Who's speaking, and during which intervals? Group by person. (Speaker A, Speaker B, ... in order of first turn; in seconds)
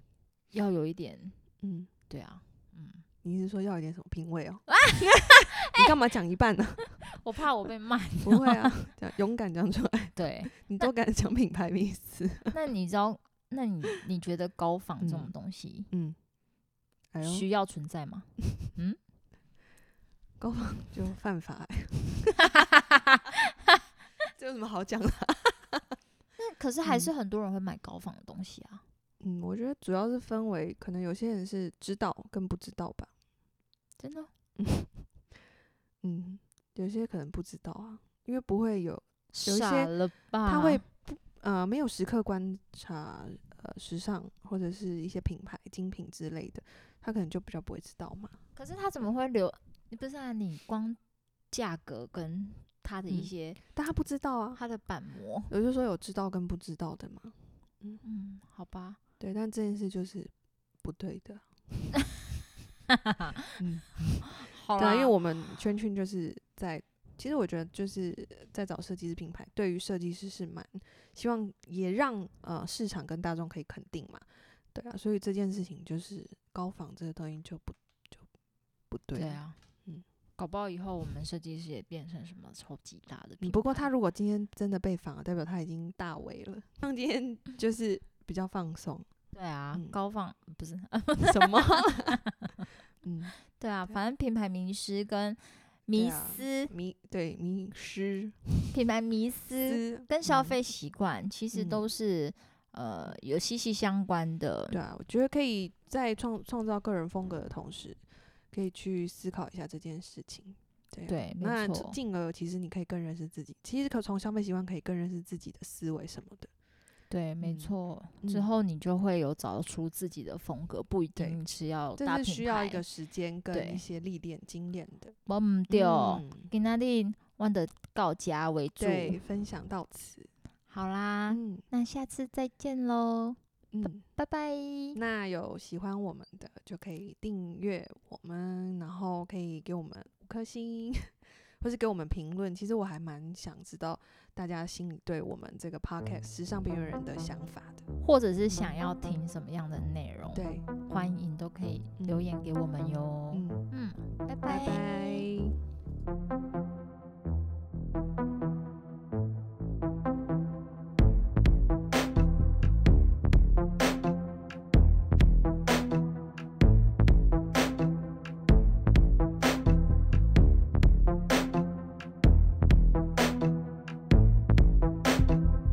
Speaker A: 0.5-1.4, 2.1-3.0, 4.7-5.9, 7.0-8.8, 10.2-10.6, 12.5-15.9, 17.2-19.0, 22.5-23.5, 26.4-28.8, 34.0-34.3, 39.3-40.8, 48.6-51.0, 51.5-53.6, 54.5-55.5, 58.0-59.0, 64.3-65.1, 79.1-79.6, 80.4-83.9, 89.3-92.6, 93.5-96.7, 98.7-104.8, 111.1-112.0, 117.1-122.8, 123.5-123.8, 125.3-129.2, 130.7-135.0, 148.0-155.3
Speaker B: 1.6-1.9, 3.2-7.1, 8.2-12.6, 15.0-15.3, 15.9-16.2, 17.1-17.5, 20.4-22.6, 24.4-25.9, 26.8-27.1, 29.2-33.1, 34.6-35.0, 36.0-40.0, 40.5-48.4, 53.1-54.6, 55.5-58.0, 59.2-60.3, 60.8-62.1, 63.5-78.3, 78.9-80.0, 83.4-89.1, 91.2-92.2, 93.0-93.3, 95.9-98.8, 99.6-100.6, 101.5-101.8, 104.7-108.0, 108.5-116.5, 117.4-118.5, 121.2-121.4, 122.0-125.2, 125.7-126.5, 128.8-130.3, 131.3-131.6, 133.7-134.0, 134.9-147.8, 148.5-148.8, 150.3-151.2, 152.0-152.2, 153.3-153.7, 154.4-155.6